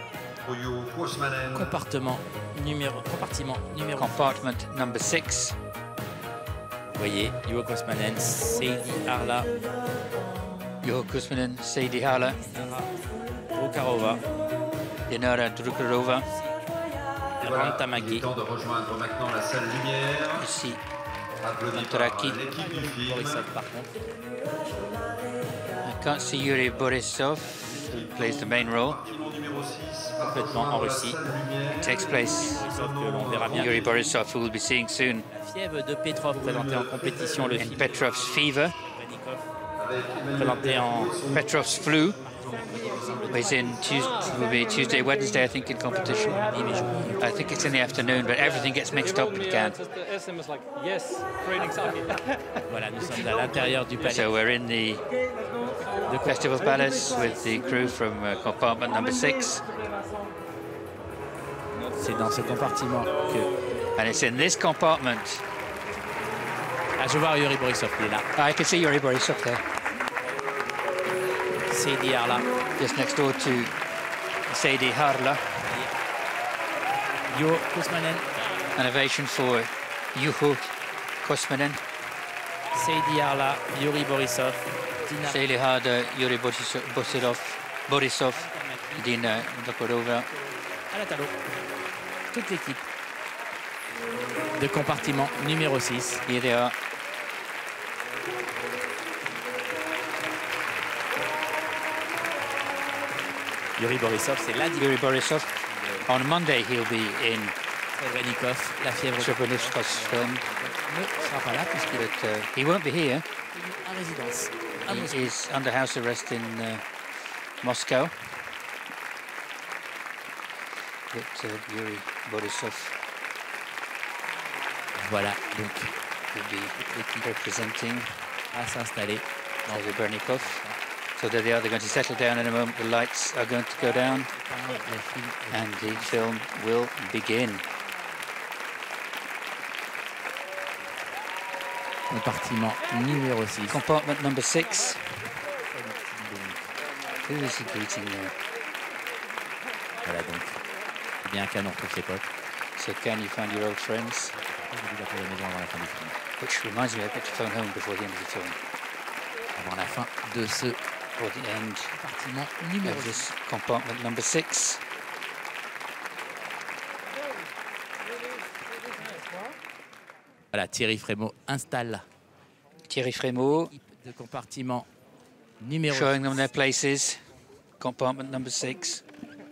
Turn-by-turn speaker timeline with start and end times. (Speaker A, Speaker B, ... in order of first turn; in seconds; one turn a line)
Speaker A: 0.4-1.8
Speaker B: 1.5-4.4
Speaker C: 4.0-5.5
Speaker B: 6.9-9.5
Speaker C: 10.8-12.4
Speaker B: 12.4-12.9
Speaker B: 13.5-14.2
Speaker C: 15.1-16.2
Speaker B: 16.0-16.6
Speaker B: 17.4-18.3
Speaker A: 17.4-20.5
Speaker C: 20.3-20.8
Speaker A: 21.4-23.5
Speaker C: 21.7-22.4
Speaker B: 21.8-23.9
Speaker C: 25.8-29.0
Speaker A: 27.6-33.9
Speaker B: 30.2-31.2
Speaker C: 31.8-32.6
Speaker B: 31.8-33.8
Speaker C: 33.5-35.2
Speaker B: 35.3-39.5
Speaker A: 36.4-37.8
Speaker C: 37.6-38.7
Speaker A: 39.8-41.5
Speaker B: 40.3-41.1
Speaker C: 41.3-42.2
Speaker B: 41.9-43.9
Speaker A: 43.0-43.3
Speaker C: 43.3-49.8
Speaker B: 46.5-48.2
Speaker D: 48.4-52.6
Speaker B: 52.7-54.3
Speaker D: 53.1-54.2
Speaker C: 54.1-55.0
Speaker B: 56.1-56.4
Speaker C: 56.2-59.6
Speaker B: 62.0-63.5
Speaker C: 64.0-65.4
Speaker B: 67.0-68.3
Speaker C: 68.3-69.6
Speaker B: 71.6-72.5
Speaker C: 72.8-73.7
Speaker C: 74.5-75.7
Speaker B: 75.7-75.9
Speaker B: 77.3-78.4
Speaker C: 78.7-81.8
Speaker B: 82.7-85.4
Speaker C: 85.2-90.3
Speaker B: 87.0-87.3
Speaker B: 88.3-89.5
Speaker B: 90.9-91.3
Speaker B: 92.3-92.8
Speaker B: 94.5-96.2
Speaker C: 96.2-96.7
Speaker B: 103.8-105.0
Speaker C: 104.8-105.5
Speaker B: 105.5-106.1
Speaker C: 106.0-107.5
Speaker B: 107.9-112.1
Speaker C: 109.2-110.4
Speaker C: 111.9-113.2
Speaker B: 113.5-115.3
Speaker C: 114.8-116.8
Speaker C: 117.6-118.1
Speaker C: 121.1-122.9
Speaker B: 125.0-125.9
Speaker C: 126.3-128.1
Speaker B: 126.8-127.3
Speaker B: 128.5-130.8
Speaker C: 129.7-130.6
Speaker C: 131.2-134.3
Speaker B: 134.2-136.4
Speaker C: 135.5-137.6
Speaker B: 142.1-143.8
Speaker C: 143.7-145.3
Speaker B: 145.6-146.7
Speaker C: 147.2-148.3
Speaker B: 150.0-150.6
Speaker B: 151.2-152.3
Speaker C: 152.8-154.3
Speaker B: 154.3-156.2
Speaker C: 156.4-158.6
Speaker B: 159.5-160.8
Speaker C: 161.1-161.9
Speaker B: 161.9-163.3
Speaker C: 162.8-164.8
Speaker B: 170.5-172.0
Speaker C: 172.9-173.7
Speaker B: 173.7-174.9
Speaker B: 175.6-176.5
Speaker C: 175.9-177.2
Speaker C: 177.8-179.0